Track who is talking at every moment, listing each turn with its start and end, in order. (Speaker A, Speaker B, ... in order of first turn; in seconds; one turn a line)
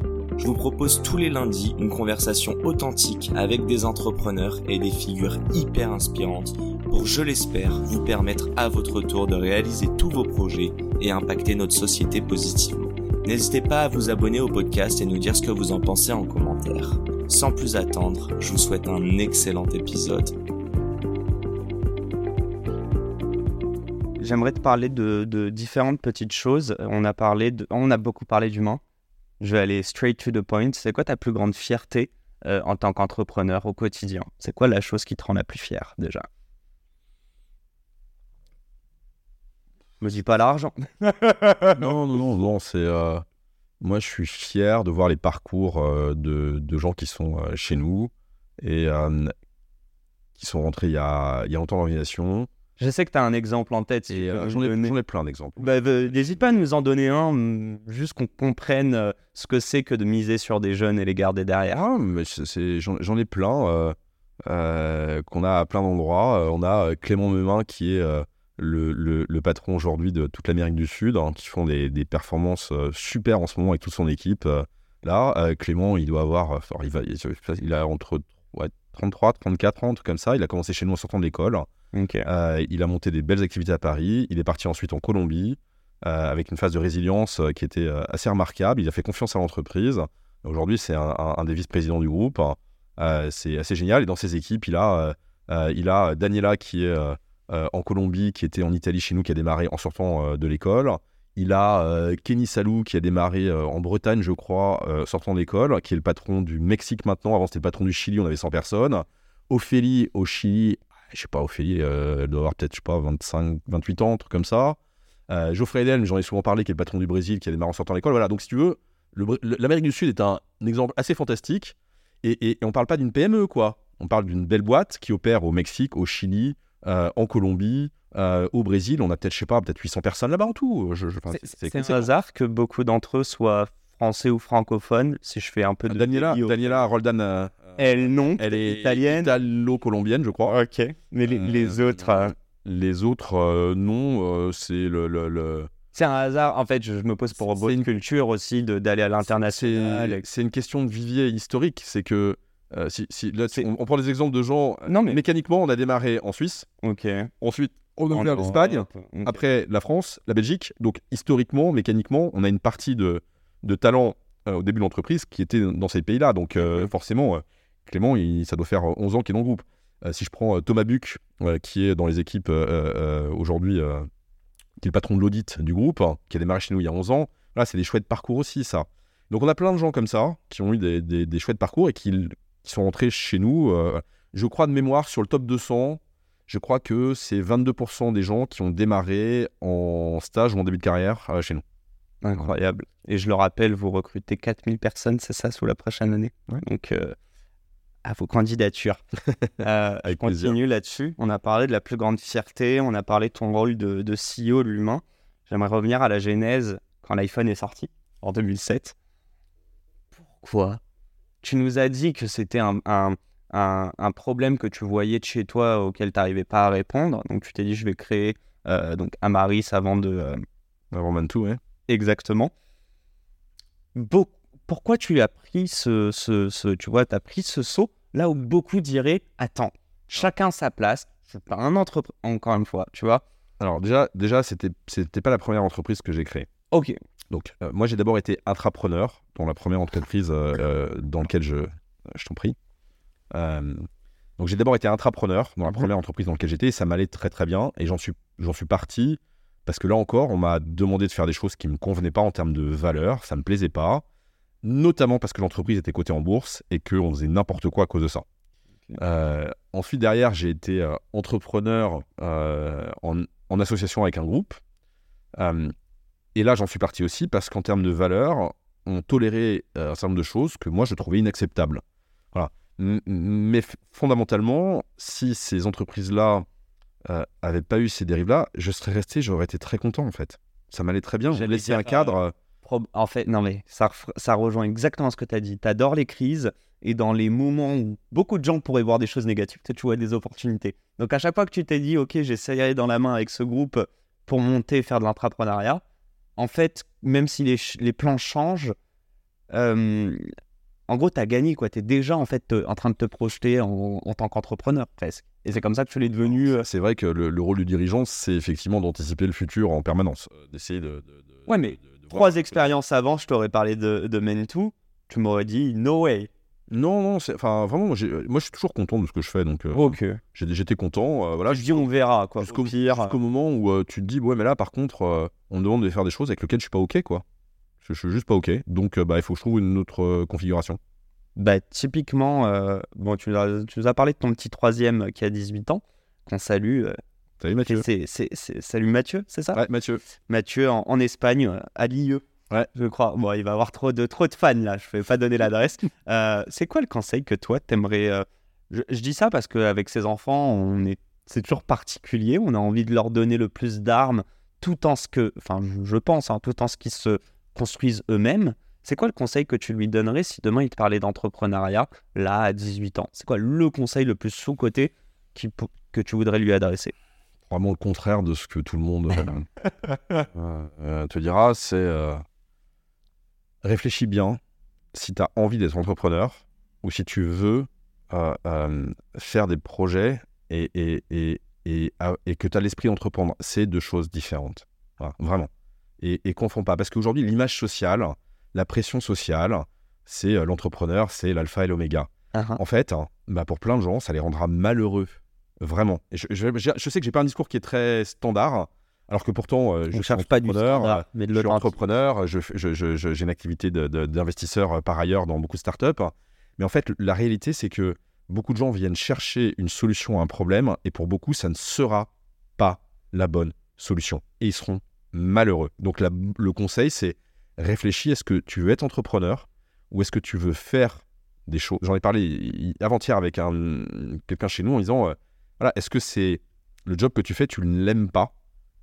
Speaker A: 0.4-20.3
Speaker B: 24.2-28.8
Speaker B: 29.4-36.2
Speaker B: 40.0-41.9
Speaker C: 41.8-43.2
Speaker C: 43.8-49.3
Speaker C: 50.4-52.5
Speaker B: 52.8-54.9
Speaker C: 54.1-55.6
Speaker B: 55.6-61.8
Speaker C: 61.7-81.7
Speaker B: 81.9-82.3
Speaker C: 82.2-114.8
Speaker C: 115.3-132.1
Speaker B: 131.3-136.8
Speaker C: 135.9-140.6
Speaker B: 137.8-139.4
Speaker B: 140.4-142.3
Speaker C: 141.2-145.7
Speaker B: 145.9-150.2
Speaker C: 147.4-147.9
Speaker C: 149.2-156.7
Speaker B: 154.8-155.2
Speaker B: 156.8-157.3
Speaker C: 157.4-174.1
Speaker B: 158.1-159.4
Speaker B: 166.6-166.9
Speaker C: 174.8-191.6
Speaker B: 192.2-197.1
Speaker B: 198.0-199.0
Speaker B: 199.6-208.9
Speaker C: 200.0-200.6
Speaker B: 210.1-210.8
Speaker B: 211.4-220.4
Speaker C: 220.9-221.6
Speaker B: 221.9-222.5
Speaker B: 223.9-233.2
Speaker C: 233.6-236.5
Speaker B: 236.7-237.0
Speaker C: 237.3-242.6
Speaker C: 243.3-243.9
Speaker C: 244.4-254.0
Speaker C: 254.6-258.2
Speaker C: 259.0-264.6
Speaker C: 265.4-265.7
Speaker C: 266.3-271.8
Speaker C: 272.3-276.4
Speaker C: 277.1-282.3
Speaker B: 281.3-295.8
Speaker B: 296.4-298.7
Speaker B: 299.5-300.2
Speaker B: 300.9-306.7
Speaker C: 306.4-312.7
Speaker B: 311.4-316.3
Speaker C: 316.7-321.9
Speaker B: 319.7-320.2
Speaker B: 321.5-323.1
Speaker C: 322.4-327.2
Speaker C: 327.8-330.8
Speaker B: 331.4-336.9
Speaker C: 337.4-337.9
Speaker B: 337.6-339.6
Speaker C: 339.5-340.0
Speaker B: 340.2-366.9
Speaker C: 367.5-369.4
Speaker C: 370.3-372.2
Speaker C: 373.6-374.4
Speaker C: 374.9-385.5
Speaker C: 386.0-428.3
Speaker B: 392.3-392.6
Speaker B: 399.9-401.8